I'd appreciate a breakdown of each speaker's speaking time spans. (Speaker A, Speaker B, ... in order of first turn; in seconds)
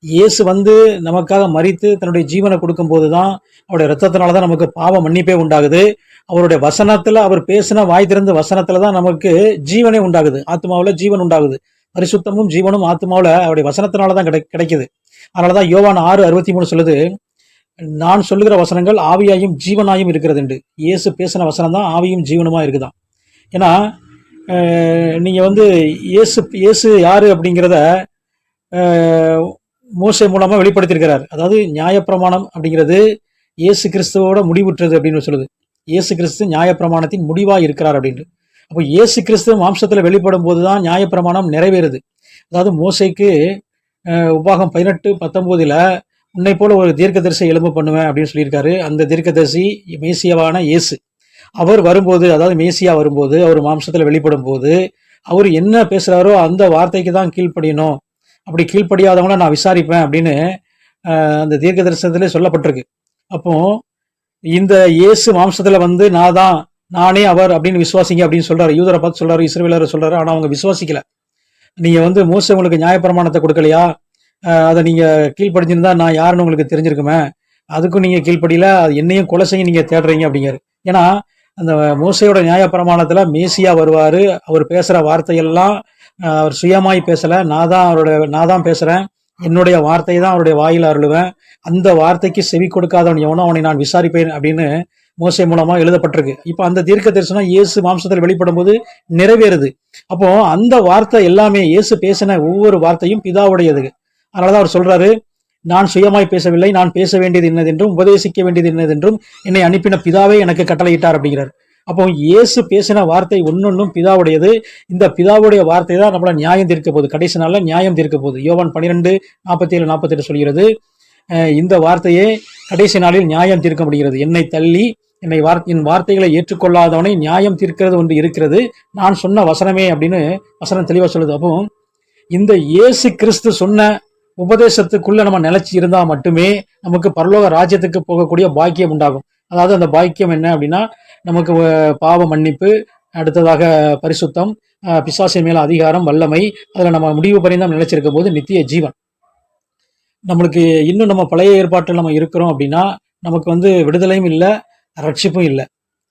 Speaker A: 0.2-14.9, 15.4-17.0, 18.0-22.9, 24.5-27.8, 28.8-33.0, 33.6-42.0, 42.5-43.3, 44.2-45.8, 46.4-51.0, 51.6-54.8, 55.3-58.0, 58.5-60.4, 61.1-63.7, 64.5-71.0, 71.8-73.9, 74.6-77.2, 77.8-81.1, 81.6-85.7, 86.3-94.7, 95.2-105.1, 105.7-120.7, 121.5-131.7, 132.3-133.9, 134.4-148.9, 150.3-154.5, 155.0-155.7